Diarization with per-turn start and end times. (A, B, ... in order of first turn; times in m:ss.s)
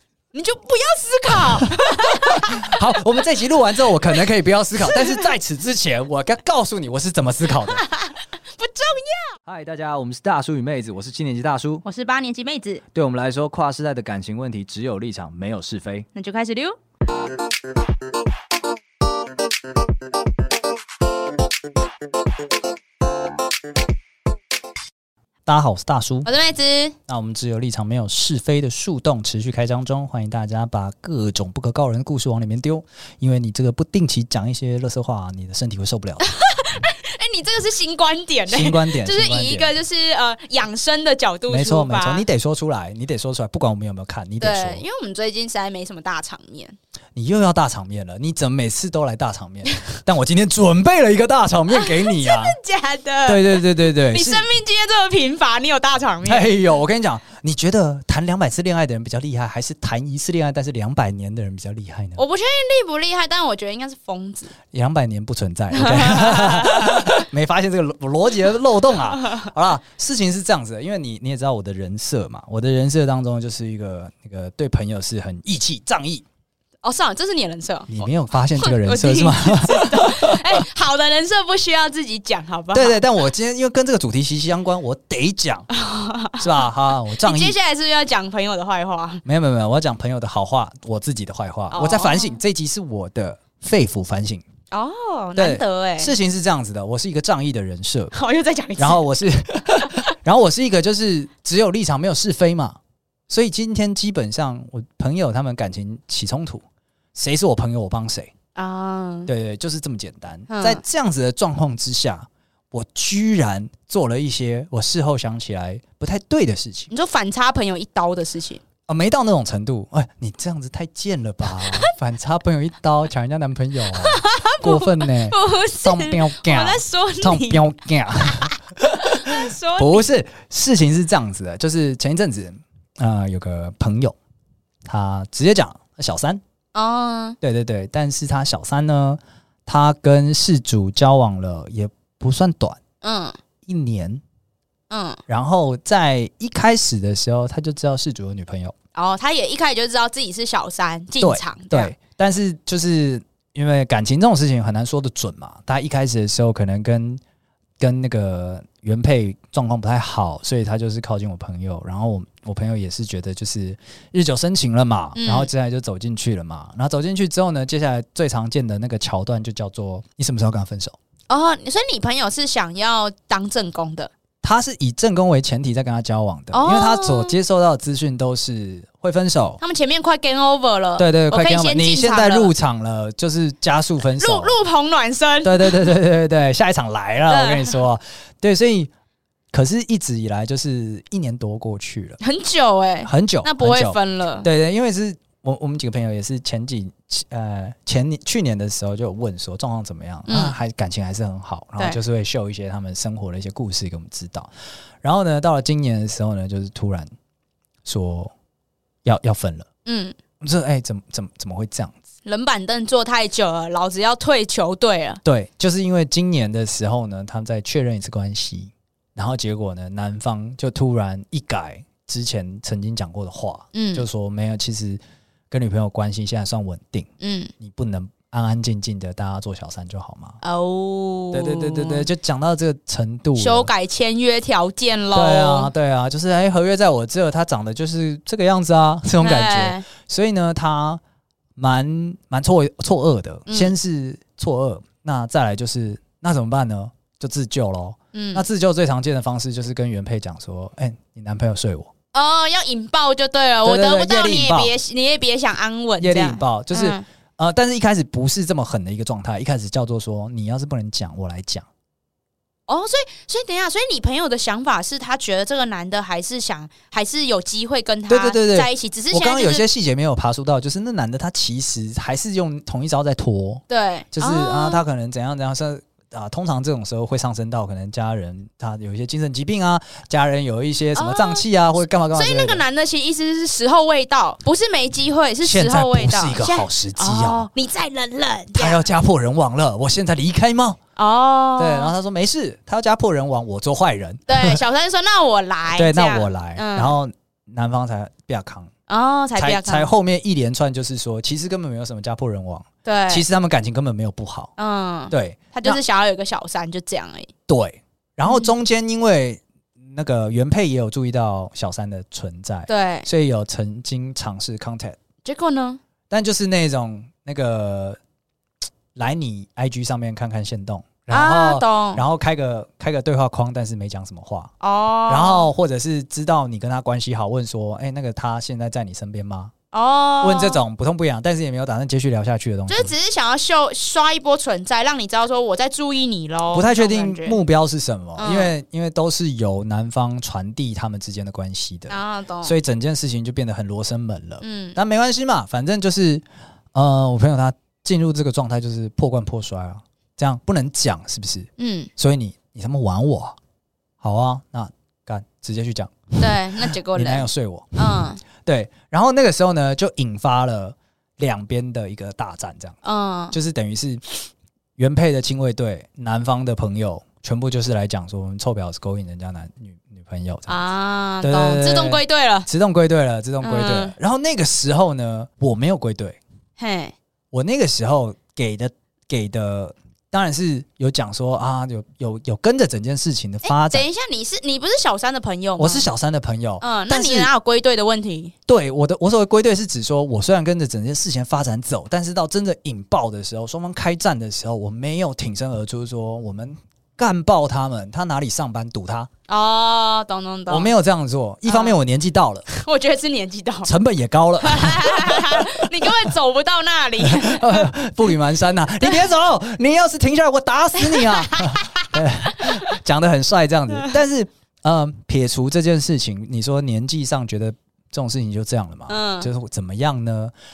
0:00.3-0:02.8 A
0:01.7-0:07.8 B
0:04.8-0:05.2 A
0:07.6-0:09.4 A
0:09.4-0:11.8 B
0:11.8-0:12.8 A
0:12.9-0:16.1 B
0:16.1-0:16.8 A
0:25.4-0:26.3 B
0:26.2-0:26.9 A
0:27.1-0:36.3 B
0:36.2-0:42.2 A
0:38.5-0:39.7 B
0:41.5-0:44.8 B
0:44.4-0:46.8 A
0:47.2-0:52.5 B
0:51.7-0:56.5 A
0:53.2-0:54.4 B
0:56.2-1:02.2 B
1:02.2-1:04.5 A
1:04.7-1:16.2 B
1:05.7-1:07.2 A
1:09.2-1:09.5 A
1:16.8-1:18.0 A
1:17.9-1:20.6 B
1:18.6-1:23.0 A
1:22.7-1:25.7 B
1:25.7-1:29.2 A
1:26.4-1:27.5 B
1:29.2-1:34.4 B
1:31.7-1:32.4 A
1:34.7-1:36.1 A
1:35.4-1:38.1 B
1:38.1-1:39.0 A
1:38.8-1:42.8 B
1:43.3-1:46.6 B
1:47.1-1:48.3 B
1:48.5-1:49.3 A
1:49.3-1:56.9 B
1:50.5-1:50.8 A
1:56.9-1:58.6 A
1:58.9-2:14.2 B
2:01.6-2:01.9 A
2:03.9-2:07.6 A
2:08.3-2:08.5 A
2:09.0-2:10.1 A
2:14.9-2:16.4 B
2:16.7-2:17.4 A
2:17.4-2:22.8 B
2:23.0-2:23.4 A
2:23.6-2:24.2 B
2:24.9-2:25.2 A
2:25.3-2:28.7 B
2:28.9-2:31.9 A
2:31.2-2:37.2 B
2:37.8-2:51.0 B
2:45.1-2:45.5 A
2:51.3-2:54.1 A
2:54.4-2:59.6 B
2:56.5-2:57.4 A
2:59.6-3:02.5 A
3:01.0-3:04.6 B
3:04.2-3:05.8 A
3:05.4-3:08.9 B
3:07.3-3:07.7 A
3:09.5-3:12.2 B
3:12.2-3:14.5 A
3:13.0-3:24.5 B
3:20.3-3:20.6 A
3:25.0-3:27.1 B
3:27.8-3:28.3 B
3:29.0-3:29.7 B
3:29.8-3:30.2 A
3:30.4-3:32.0 B
3:32.2-3:35.2 A
3:35.2-3:45.0 B
3:43.7-3:44.0 A
3:45.5-3:50.4 B
3:47.2-3:47.5 A
3:50.4-3:52.0 A
3:51.3-3:53.7 B
3:53.4-3:55.7 A
3:55.1-4:01.0 B
3:59.2-3:59.8 A
4:01.6-4:11.9 B
4:03.5-4:03.7 A
4:08.1-4:08.4 A
4:12.1-4:17.0 A
4:13.6-4:14.7 B
4:16.0-4:21.6 B
4:22.7-4:29.6 A
4:28.1-4:33.6 B
4:33.7-4:34.8 A
4:34.1-4:42.6 B
4:40.9-4:41.4 A
4:42.1-4:48.8 A
4:45.4-4:47.5 B
4:48.5-4:50.8 B
4:51.0-4:51.9 A
4:51.6-4:54.6 B
4:54.3-4:57.0 A
4:55.7-4:58.7 B
4:58.9-4:59.9 A
4:59.4-5:04.5 B
5:02.8-5:03.2 A
5:04.6-5:07.3 A
5:05.1-5:05.8 B
5:07.5-5:15.0 B
5:08.2-5:08.5 A
5:12.7-5:13.1 A
5:15.2-5:15.8 A
5:16.1-5:18.0 B
5:18.9-5:24.5 B
5:21.1-5:22.0 A
5:24.6-5:25.5 A
5:25.1-5:29.5 B
5:29.7-5:30.6 A
5:30.2-5:32.9 B
5:32.7-5:37.4 A
5:36.5-5:53.4 B
5:38.2-5:38.5 A
5:41.9-5:42.5 A
5:44.4-5:44.8 A
5:51.6-5:51.9 A
5:54.0-6:02.8 B
5:56.2-5:58.2 A
6:02.8-6:03.4 A
6:03.3-6:10.6 B
6:10.5-6:12.5 A
6:11.2-6:16.2 B
6:13.4-6:13.9 A
6:16.6-6:16.9 A
6:17.3-6:23.8 B
6:23.4-6:25.9 A
6:25.6-6:27.3 B
6:26.6-6:28.3 A
6:28.5-6:39.1 B
6:39.3-6:40.7 A
6:40.5-6:42.5 B
6:41.5-6:41.8 A
6:42.5-6:43.7 A
6:43.6-6:45.8 B
6:44.4-6:47.7 A
6:47.0-7:00.3 B
6:48.8-6:49.1 A
6:50.8-6:52.6 A
6:58.9-6:59.3 A